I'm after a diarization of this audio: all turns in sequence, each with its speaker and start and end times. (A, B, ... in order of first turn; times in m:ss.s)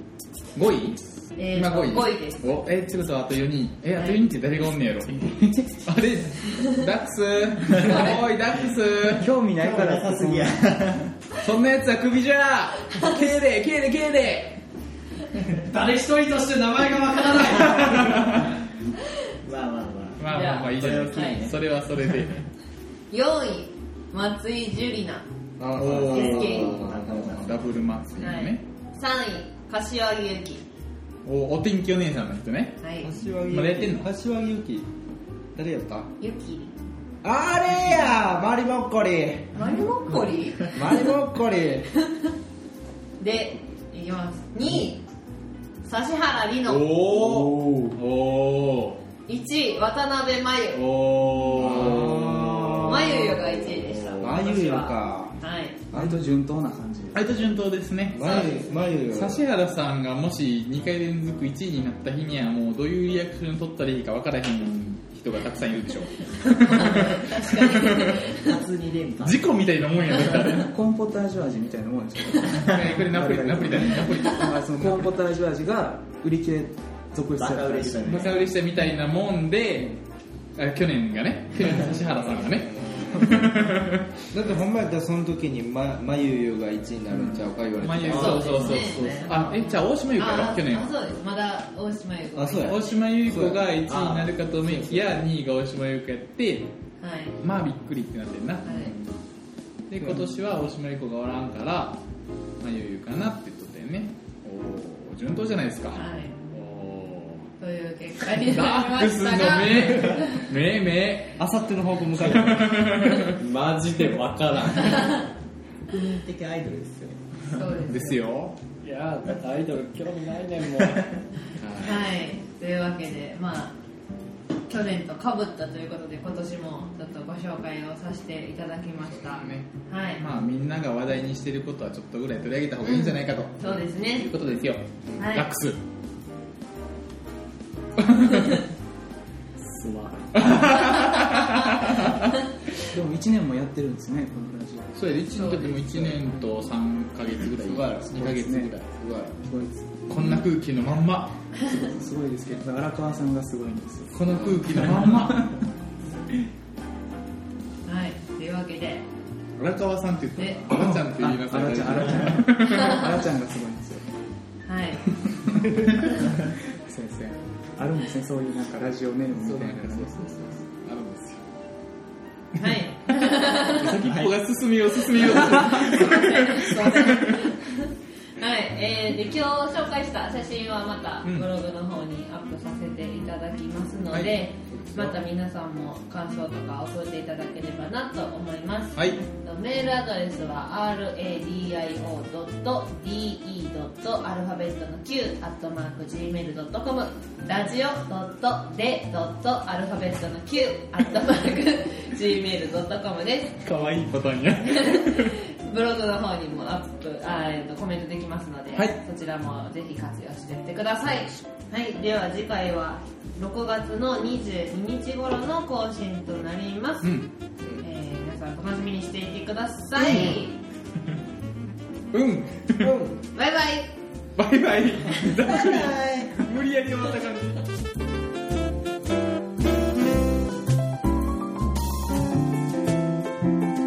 0:00.5-0:09.4 A
0:01.4-0:02.6 B
0:03.9-0:04.2 B
0:05.3-0:05.8 C
0:07.8-0:08.1 B
0:09.1-0:10.6 C
0:09.5-0:11.2 D
0:11.4-0:14.6 A
0:15.5-0:18.3 E
0:17.5-0:18.6 A
0:19.4-0:21.7 D
0:20.2-0:22.5 A
0:20.3-0:21.3 B
0:23.1-0:25.2 B
0:25.6-0:27.6 F
0:25.8-0:28.6 A
0:25.9-0:27.9 D
0:26.1-0:26.8 B
0:28.2-0:30.6 B
0:31.2-0:32.8 A
0:32.8-0:33.1 B
0:33.0-0:34.9 F
0:33.5-0:34.0 A
0:35.6-0:36.1 F
0:36.2-0:36.8 B
0:37.2-0:39.6 F
0:39.6-0:41.0 B
0:40.7-0:41.9 F
0:43.2-0:45.0 B
0:45.8-0:46.9 B
0:46.6-0:49.0 A
0:47.1-0:48.0 C
0:49.3-0:51.0 B
0:50.7-0:54.4 A
0:51.5-0:53.6 F
0:52.8-0:55.8 B
0:54.2-0:55.4 F
0:55.9-0:56.2 F
0:55.9-0:57.5 C
0:57.1-0:58.5 A
0:58.1-0:59.5 F
0:58.2-0:59.0 B
0:59.1-1:08.2 A
1:06.5-1:08.5 B
1:08.4-1:09.5 D
1:09.2-1:10.7 A
1:10.5-1:18.3 C
1:12.6-1:15.2 A
1:17.4-1:18.5 D
1:18.1-1:20.0 A
1:20.6-1:24.1 A
1:22.4-1:23.2 F
1:24.3-1:28.6 F
1:27.8-1:30.9 A
1:28.1-1:33.0 B
1:28.1-1:29.3 D
1:32.4-1:33.6 F
1:32.6-1:36.7 A
1:33.8-1:35.0 D
1:37.0-1:37.4 B
1:37.4-1:39.0 A
1:38.7-1:38.9 B
1:39.9-1:42.0 A
1:42.6-1:47.5 A
1:46.0-1:46.4 B
1:47.6-1:50.5 B
1:48.3-1:51.4 A
1:51.4-1:52.9 F
1:52.2-1:53.4 A
1:53.2-1:55.2 E
1:55.9-1:57.6 D
1:57.5-1:58.2 B
1:57.9-1:58.6 A
1:58.8-2:01.2 E
2:01.6-2:02.1 A
2:01.8-2:03.8 B
2:04.7-2:10.2 B
2:09.2-2:15.8 A
2:12.8-2:14.3 B
2:15.2-2:15.5 B
2:18.0-2:18.6 A
2:19.6-2:20.8 E
2:20.3-2:22.4 A
2:22.9-2:25.2 C
2:25.0-2:29.3 A
2:25.3-2:25.8 B
2:25.9-2:26.2 D
2:27.6-2:28.2 D
2:28.1-2:28.7 C
2:29.4-2:30.2 C
2:30.1-2:31.4 A
2:31.6-2:35.5 C
2:34.1-2:35.6 A
2:37.9-2:39.0 B
2:39.6-2:43.0 A
2:40.4-2:40.7 B
2:40.8-2:44.1 C
2:44.7-2:45.1 B
2:45.4-2:50.2 C
2:49.4-2:51.4 A
2:52.5-2:57.5 A
2:52.6-2:54.0 B
2:54.0-2:54.3 D
2:55.2-3:23.6 B
3:01.2-3:01.5 A
3:04.1-3:05.2 A
3:09.0-3:09.2 A
3:23.6-3:25.3 A
3:24.7-3:37.2 B
3:28.7-3:29.0 A
3:37.0-3:37.3 A
3:37.8-3:40.6 B
3:40.1-3:40.4 A
3:42.1-3:43.0 A
3:42.8-3:43.2 F
3:43.3-3:43.9 B
3:44.4-3:47.6 A